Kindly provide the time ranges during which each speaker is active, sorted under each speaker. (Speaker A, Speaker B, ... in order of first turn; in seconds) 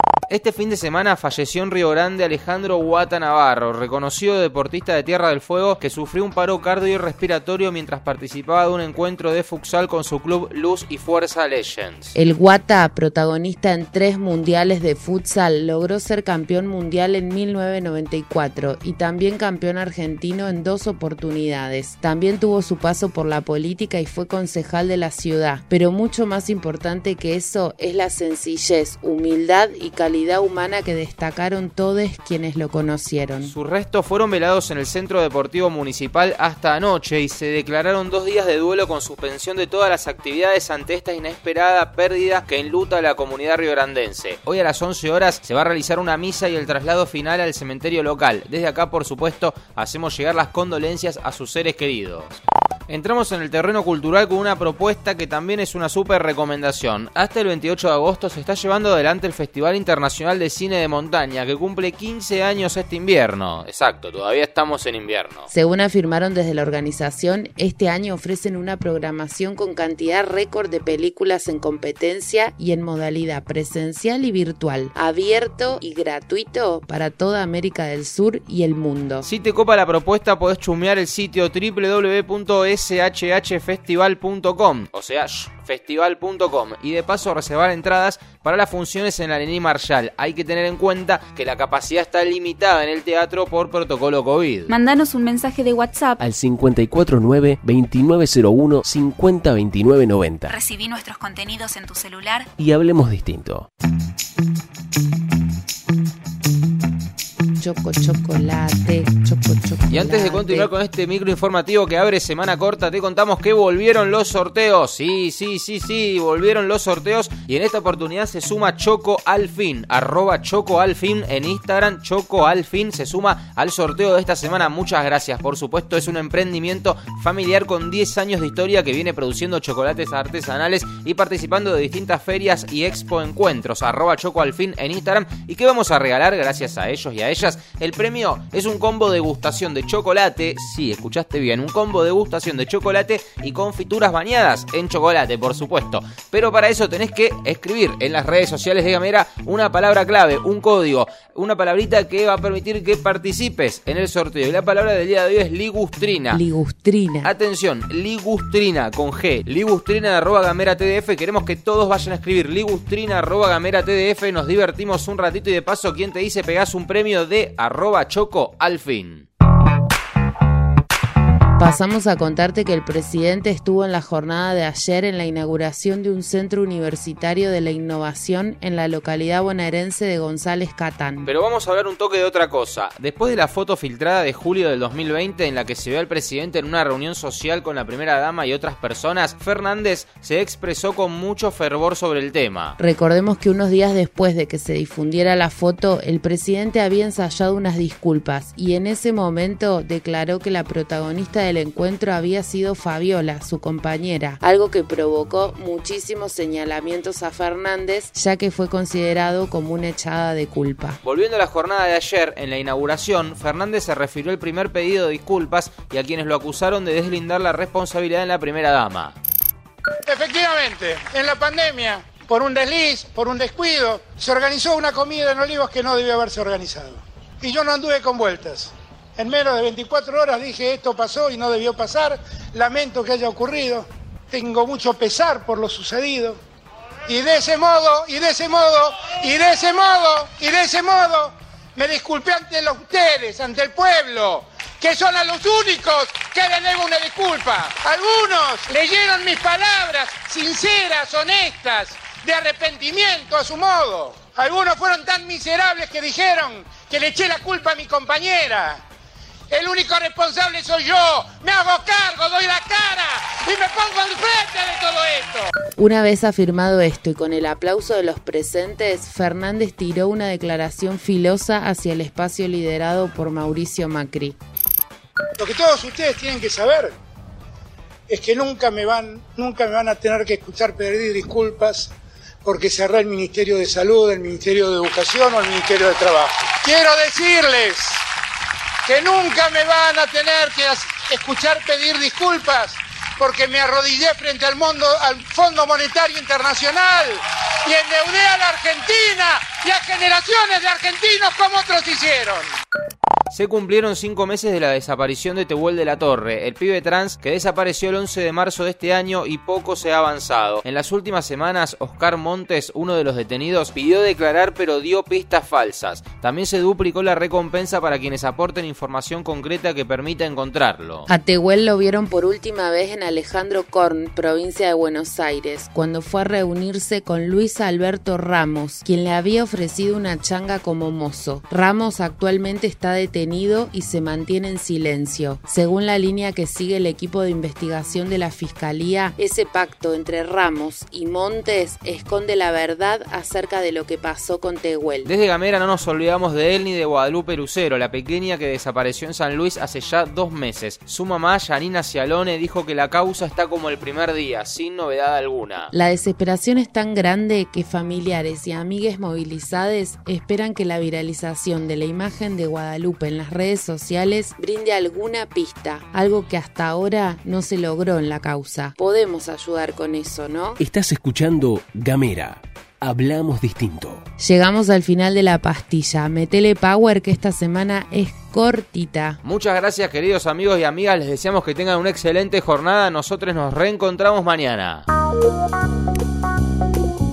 Speaker A: 0.3-12.1, 33.4-65.5, 79.2-94.7, 109.9-156.4, 157.2-169.2, 181.2-192.8, 211.0-219.2, 303.3-321.1, 345.0-355.7, 379.2-384.9
Speaker B: 12.1-33.5, 65.5-79.3, 107.6-110.7, 156.3-157.3, 171.6-181.3, 192.8-211.0, 265.8-274.4, 321.1-345.1, 355.7-370.6, 374.2-379.2
Speaker C: 94.7-96.2, 100.5-102.5
Speaker D: 96.2-100.5, 102.6-103.7, 370.6-374.0
Speaker E: 220.1-236.4, 237.1-258.8, 259.5-265.5, 275.4-276.9, 278.1-281.9, 282.4-288.0, 288.9-302.5